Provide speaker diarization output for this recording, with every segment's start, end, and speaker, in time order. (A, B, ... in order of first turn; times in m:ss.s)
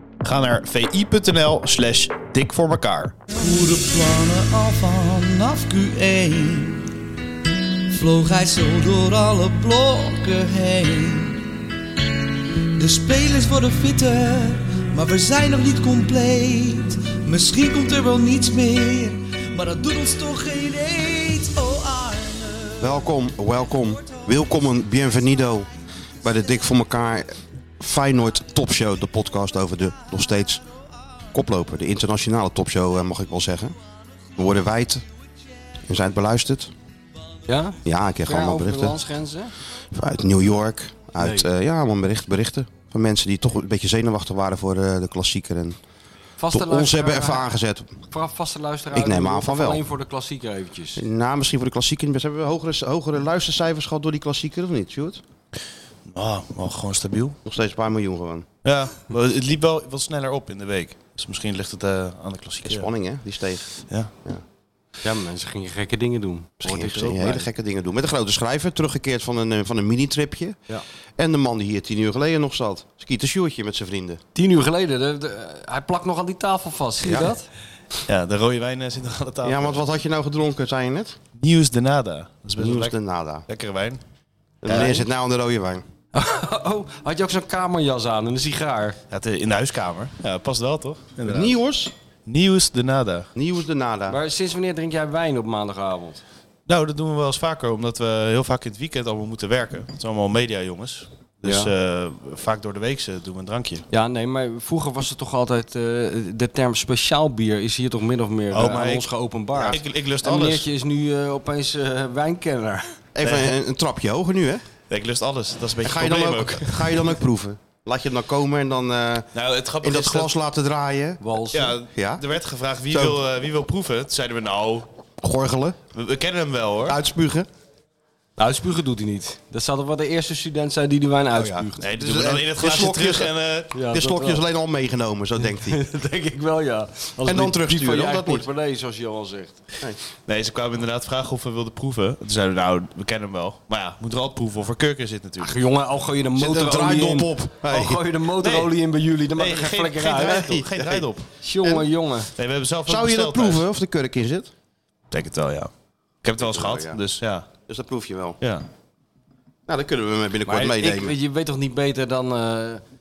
0:00.2-0:03.1 A
0:03.4-0:06.9 B
0:07.9-0:11.5 B
0:12.8-0:23.1 B
0:22.8-0:25.7 C
0:24.0-0:24.3 B
0:26.2-0:30.6 C
0:31.3-0:33.8 C
0:34.4-0:35.0 C
0:35.9-0:36.7 C
0:37.5-0:39.5 D
0:37.8-0:39.0 C
0:39.9-0:45.8 C
0:41.2-0:41.5 D
0:46.4-0:47.5 D
0:46.5-0:47.9 C
0:48.1-0:51.0 D
0:48.9-0:49.8 C
0:51.0-0:55.2 C
0:56.1-0:57.4 A
0:57.4-0:58.4 C
0:58.6-1:02.9 A
1:02.6-1:03.7 C
1:05.0-1:07.5 D
1:06.6-1:10.6 C
1:11.2-1:14.2 C
1:14.3-1:17.5 D
1:17.0-1:17.3 C
1:18.0-1:19.8 A
1:19.4-1:21.2 C
1:21.4-1:22.9 A
1:22.6-1:23.4 C
1:23.5-1:24.0 A
1:24.6-1:25.8 C
1:24.6-1:25.0 A
1:24.7-1:25.0 D
1:26.1-1:29.0 D
1:29.1-1:31.5 A
1:31.2-1:31.9 C
1:32.3-1:33.3 A
1:33.3-1:34.2 C
1:34.1-1:36.2 D
1:36.7-1:43.8 A
1:41.4-1:41.7 D
1:43.9-1:52.9 D
1:48.5-1:49.1 A
1:49.6-1:50.6 A
1:53.1-1:54.6 C
1:53.2-1:53.5 A
1:54.9-1:57.1 A
1:55.8-1:59.3 C
1:59.3-2:00.3 A
1:59.8-2:01.2 C
2:01.2-2:01.7 D
2:01.5-2:04.9 A
2:01.9-2:02.2 C
2:02.9-2:03.2 C
2:05.2-2:05.8 C
2:05.9-2:07.0 A
2:06.8-2:07.5 C
2:08.4-2:11.8 D
2:11.3-2:13.3 C
2:11.8-2:13.7 A
2:13.7-2:14.4 D
2:13.9-2:15.8 C
2:15.4-2:19.6 D
2:17.2-2:18.5 C
2:20.3-2:25.6 A
2:25.4-2:30.4 D
2:26.4-2:28.0 C
2:26.6-2:27.1 A
2:28.4-2:28.7 A
2:29.4-2:31.3 A
2:30.1-2:31.0 C
2:31.4-2:32.3 D
2:32.4-2:33.6 A
2:32.8-2:34.5 C
2:35.1-2:35.7 A
2:36.2-2:37.4 A
2:36.4-2:37.0 C
2:37.7-2:38.4 C
2:38.4-2:38.6 A
2:39.7-2:41.1 C
2:40.4-2:42.8 D